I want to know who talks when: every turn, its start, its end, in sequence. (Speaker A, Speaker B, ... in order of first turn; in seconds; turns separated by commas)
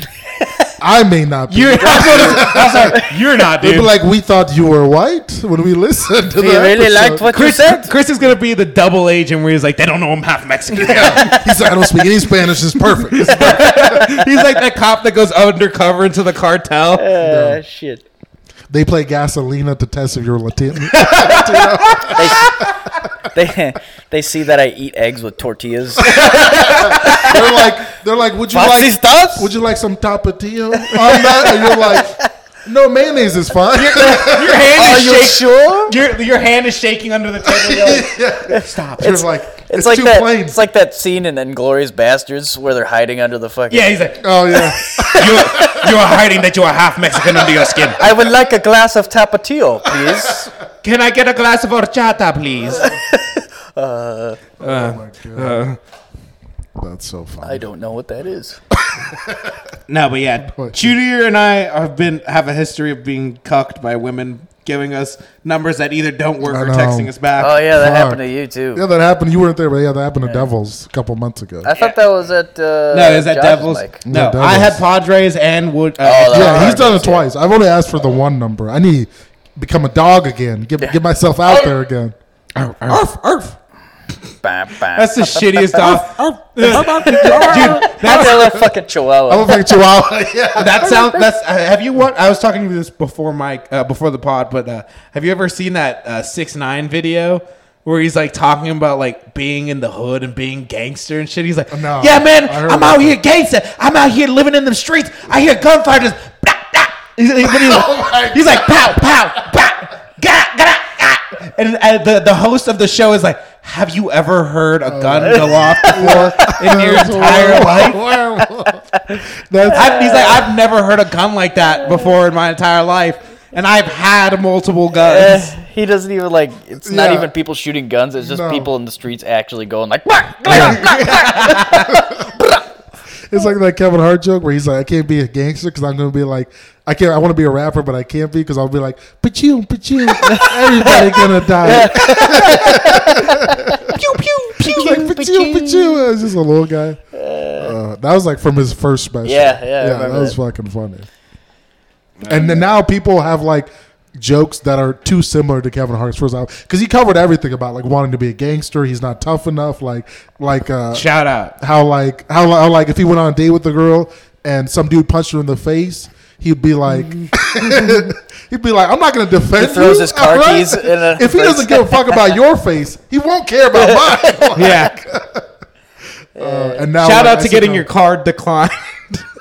Speaker A: 0.4-0.7, Speaker B: 0.8-7.3, Speaker C: 1.5-3.9, Speaker A: 1.8-3.1, Speaker A: 6.4-7.9, Speaker C: 7.3-11.6, Speaker B: 10.7-14.1, Speaker C: 12.9-17.1, Speaker A: 13.4-13.7, Speaker A: 17.0-18.0, Speaker B: 17.2-17.6, Speaker B: 18.7-22.5, Speaker C: 20.9-22.7, Speaker A: 22.1-22.6, Speaker A: 23.3-27.6, Speaker B: 26.1-34.8, Speaker C: 26.1-27.4, Speaker A: 28.5-29.5, Speaker A: 30.8-32.3, Speaker C: 33.7-39.2, Speaker A: 34.7-36.0, Speaker B: 37.4-40.6, Speaker A: 38.5-45.9, Speaker C: 43.7-44.2, Speaker B: 44.2-45.9, Speaker C: 45.1-48.0, Speaker A: 48.0-50.5, Speaker B: 49.9-50.4, Speaker C: 50.8-52.9, Speaker A: 52.7-54.4, Speaker B: 54.6-55.7, Speaker C: 54.6-55.8, Speaker B: 56.8-57.6, Speaker A: 57.4-58.6, Speaker B: 58.9-59.6, Speaker C: 59.9-67.6, Speaker B: 60.5-61.0, Speaker B: 66.4-67.1, Speaker A: 67.4-68.8, Speaker B: 67.7-68.2, Speaker B: 68.7-71.7, Speaker A: 70.2-70.5, Speaker A: 71.6-74.0, Speaker C: 72.9-77.0, Speaker B: 74.0-74.8, Speaker A: 76.0-77.2, Speaker B: 76.3-82.2, Speaker A: 80.8-81.7, Speaker C: 82.6-83.6, Speaker A: 84.4-86.0, Speaker C: 84.9-88.6, Speaker B: 86.7-88.7, Speaker A: 86.7-89.7, Speaker B: 89.3-91.3, Speaker C: 90.6-118.0, Speaker B: 101.7-103.2, Speaker B: 107.4-109.0, Speaker B: 114.9-118.9, Speaker A: 115.6-116.6, Speaker A: 119.0-120.5, Speaker B: 119.4-120.4, Speaker C: 119.7-125.5, Speaker A: 125.0-132.6, Speaker B: 126.8-127.3, Speaker B: 128.2-128.7, Speaker B: 130.5-131.2, Speaker C: 130.5-131.9, Speaker B: 131.9-132.4, Speaker B: 133.3-144.0, Speaker A: 140.2-144.0, Speaker C: 142.0-142.7, Speaker C: 143.9-145.2, Speaker A: 144.6-146.1, Speaker B: 144.6-147.0, Speaker A: 147.1-147.7, Speaker B: 147.6-151.1, Speaker A: 149.2-150.4, Speaker C: 152.2-152.6, Speaker B: 152.3-161.1, Speaker C: 160.9-161.6, Speaker B: 161.6-175.5, Speaker C: 167.0-167.3, Speaker A: 169.6-172.3, Speaker A: 173.8-174.5, Speaker C: 174.6-174.9, Speaker A: 176.4-176.9, Speaker B: 176.4-177.9, Speaker C: 177.0-179.2